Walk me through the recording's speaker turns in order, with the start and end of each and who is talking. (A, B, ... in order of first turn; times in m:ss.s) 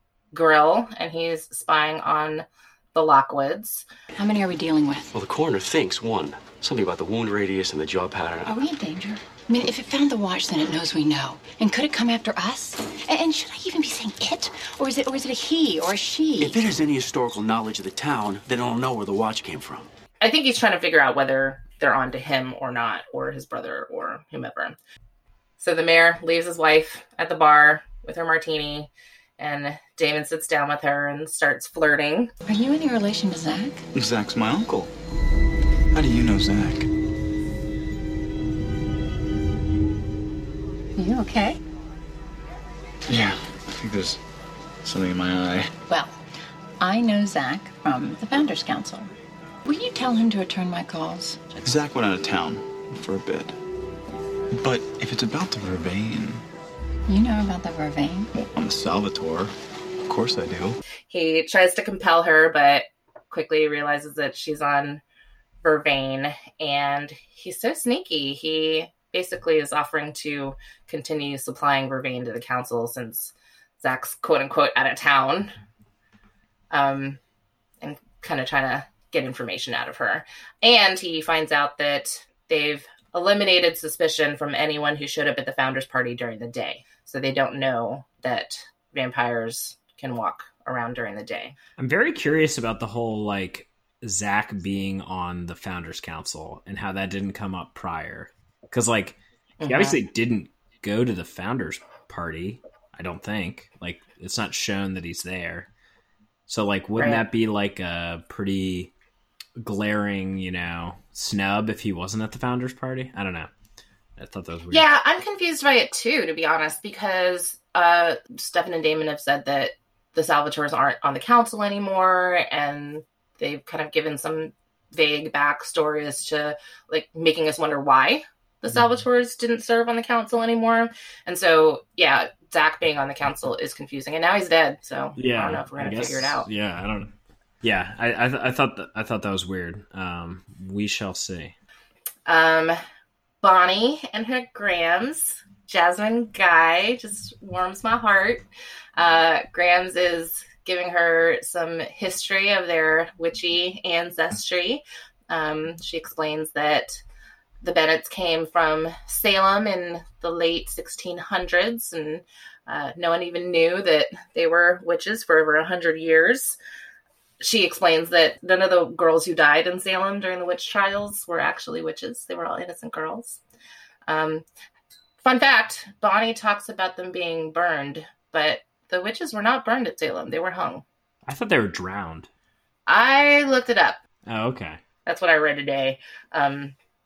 0:00.3-0:03.8 A
0:04.2-0:05.1 B
0:05.1-0:08.5 C
0:08.4-0:16.6 B
0:16.4-0:19.9 D
0:20.2-0:24.8 A
0:25.6-0:32.3 A
0:32.5-0:33.8 B
0:33.9-0:34.9 E
0:35.9-0:36.9 E
0:41.0-0:41.6 B
0:43.1-0:44.2 E
0:44.8-0:45.7 E
0:45.9-0:46.2 B
0:46.8-0:49.1 B
0:49.6-0:51.6 B
0:51.6-0:53.6 E
0:54.5-0:56.4 E
0:57.1-0:58.3 B
0:58.3-0:59.5 E
1:00.0-1:00.8 E
1:01.1-1:05.0 A
1:05.6-1:15.5 A
1:16.7-1:17.2 A
1:17.8-1:31.6 A
1:31.8-1:45.7 F
1:39.6-1:40.0 A
1:46.5-1:48.9 F
1:47.0-1:47.2 A
1:49.6-1:53.5 F
1:54.2-1:54.9 F
1:54.7-2:16.5 A
2:15.2-2:21.5 F
2:22.3-2:22.8 A
2:23.4-2:28.4 A
2:29.0-2:37.0 A
2:37.6-2:46.6 A
2:47.4-2:53.4 A
2:54.1-2:54.4 A
2:55.2-3:00.8 A
3:01.3-3:02.3 F
3:02.9-3:04.0 A
3:04.3-3:04.8 F
3:05.1-3:06.8 A